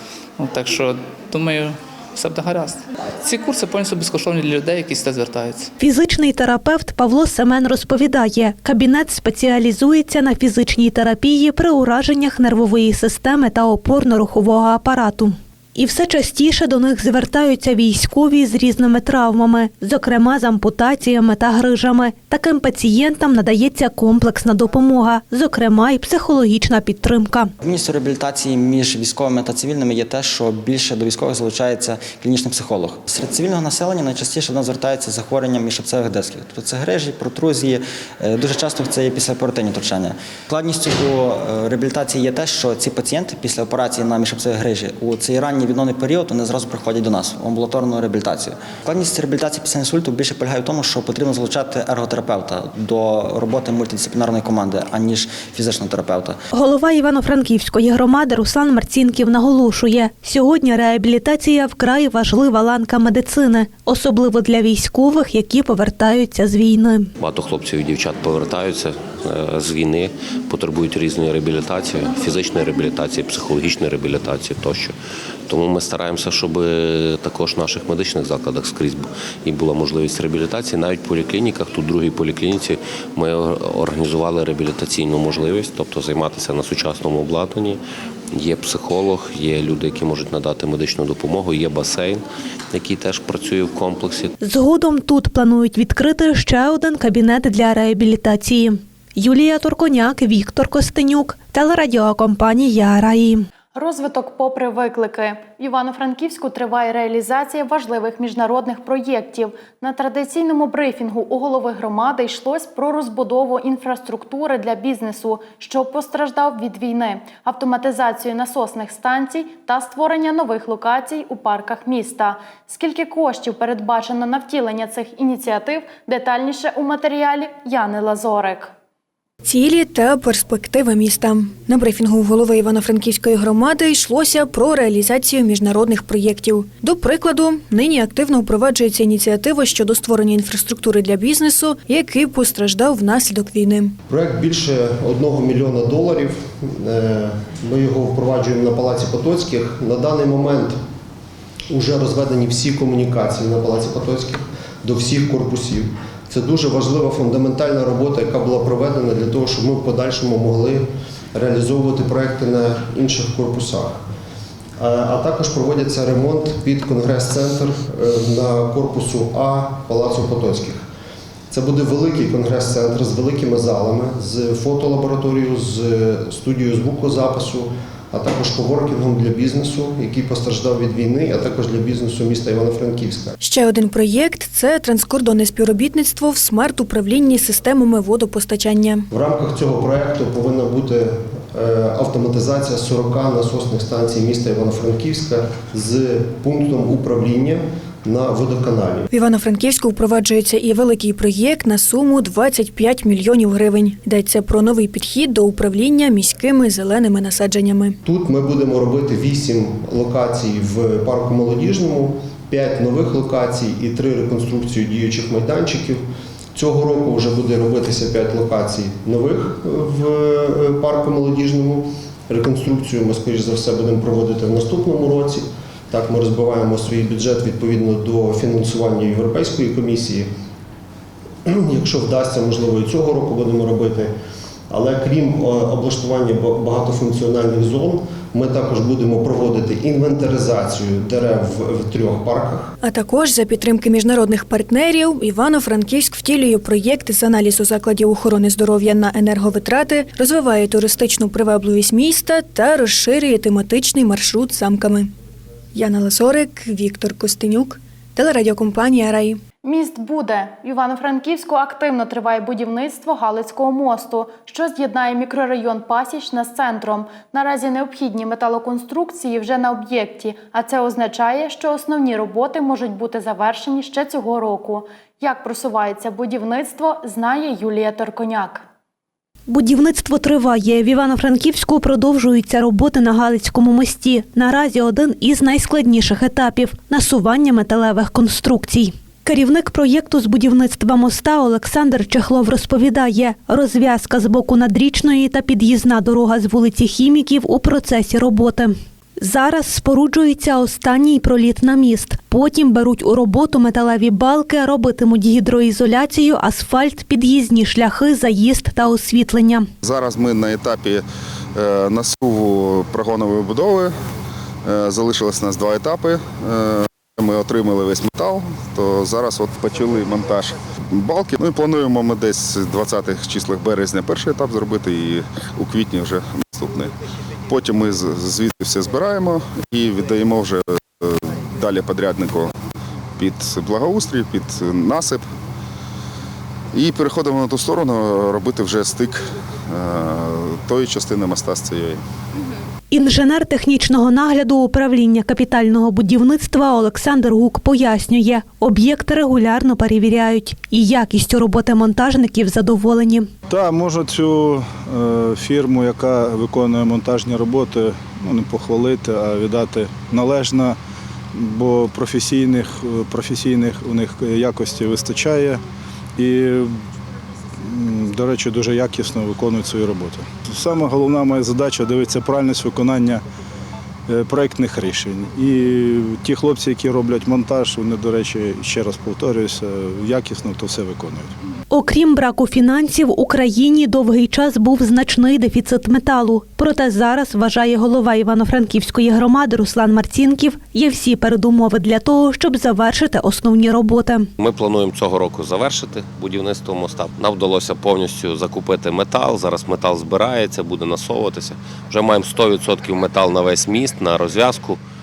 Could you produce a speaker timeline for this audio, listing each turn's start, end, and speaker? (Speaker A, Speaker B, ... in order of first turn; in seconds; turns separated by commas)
Speaker A: 0.4-5.7, Speaker B: 5.8-27.5, Speaker C: 27.6-56.4, Speaker B: 56.5-67.1, Speaker D: 67.2-74.9, Speaker D: 75.5-87.8, Speaker D: 88.3-92.2, Speaker D: 92.7-94.3, Speaker B: 94.4-103.5, Speaker E: 103.7-128.7, Speaker F: 129.4-143.9, Speaker G: 144.1-150.8, Speaker G: 151.7-164.0, Speaker G: 164.8-170.8, Speaker G: 171.5-183.4, Speaker F: 183.4-189.1, Speaker G: 189.1-199.1, Speaker F: 199.1-208.0, Speaker G: 208.0-230.3, Speaker G: 231.4-234.1, Speaker G: 234.7-242.7, Speaker F: 242.8-255.1, Speaker F: 255.7-259.4, Speaker E: 259.6-278.6, Speaker B: 279.5-309.7, Speaker H: 309.8-311.0, Speaker H: 311.6-313.9, Speaker H: 314.6-326.9, Speaker H: 327.5-332.5, Speaker H: 333.2-335.2, Speaker H: 336.7-342.0, Speaker B: 342.9-353.3, Speaker I: 353.5-360.8, Speaker I: 361.3-365.6, Speaker I: 366.2-366.7, Speaker I: 367.6-373.2, Speaker I: 374.1-381.3, Speaker B: 381.7-394.3, Speaker D: 394.4-404.8